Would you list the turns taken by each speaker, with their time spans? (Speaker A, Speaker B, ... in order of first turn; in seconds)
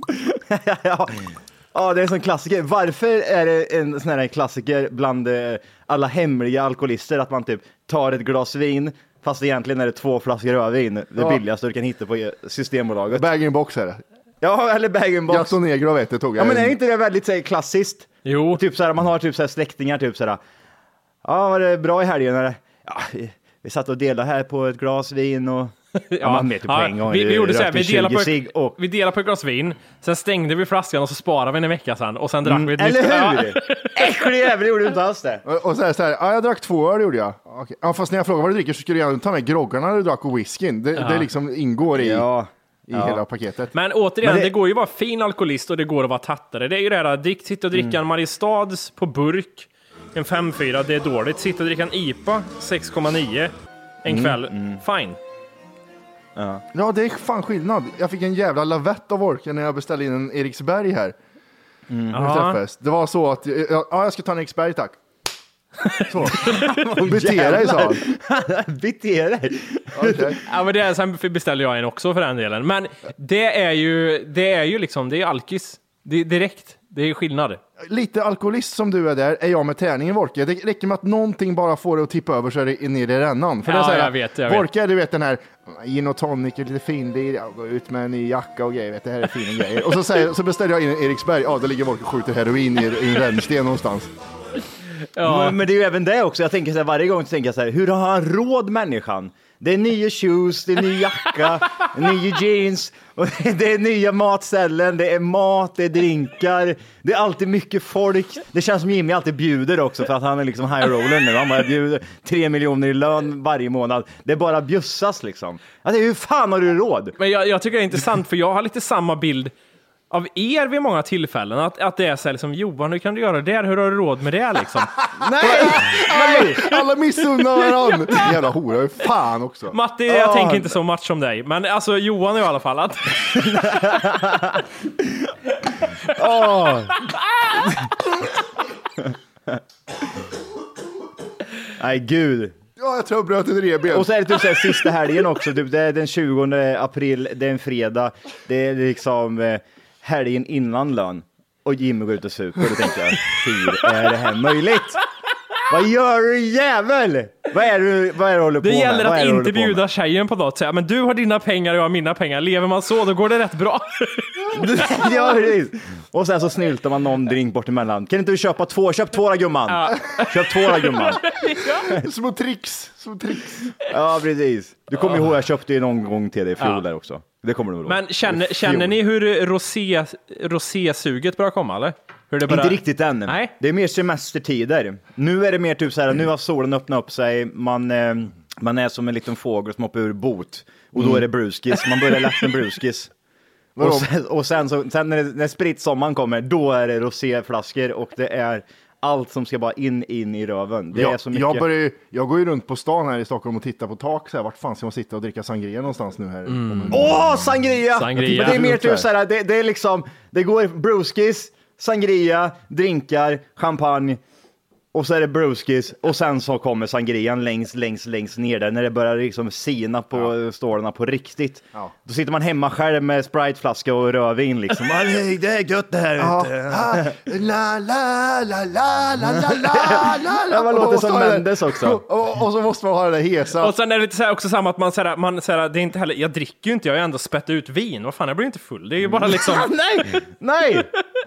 Speaker A: 0.2-13.3, 14.4-15.6, 16.4-20.4, 21.2-28.8, 32.4-35.4, 42.0-43.2, 44.2-44.5, 47.7-48.0, 54.1-54.8, 56.4-56.6, 61.9-62.2, 66.2-70.3, 95.2-117.2, 125.2-125.9, 130.1-130.8, 133.4-134.6, 136.1-137.9, 139.0-139.6, 141.8-142.6, 143.9-155.0, 155.7-159.8, 164.5-171.3, 173.9-178.9, 182.4-193.1, 193.8-201.7, 206.9-214.2, 214.9-227.2, 229.3-232.0, 239.1-240.9
Speaker B: 13.1-14.0, 15.3-16.8, 35.4-42.3, 42.9-43.7, 56.7-61.1, 62.1-65.0, 66.1-66.5, 67.0-68.0, 69.9-70.4, 77.8-94.1, 125.2-129.8, 142.8-144.1, 171.9-173.7, 190.9-191.2, 193.8-194.1, 200.9-207.5, 208.2-209.1, 226.2-233.7
Speaker C: 18.2-18.6, 26.1-34.2, 41.0-41.2, 43.7-53.5, 54.0-55.2, 62.1-62.6, 65.8-66.7, 70.4-77.6, 83.6-84.7, 95.2-95.6, 117.2-119.5, 120.1-126.8, 127.4-128.2, 129.7-133.8, 158.6-165.0, 169.7-171.9, 175.0-175.3, 177.8-183.5, 206.5-207.0, 207.9-208.6, 233.6-239.7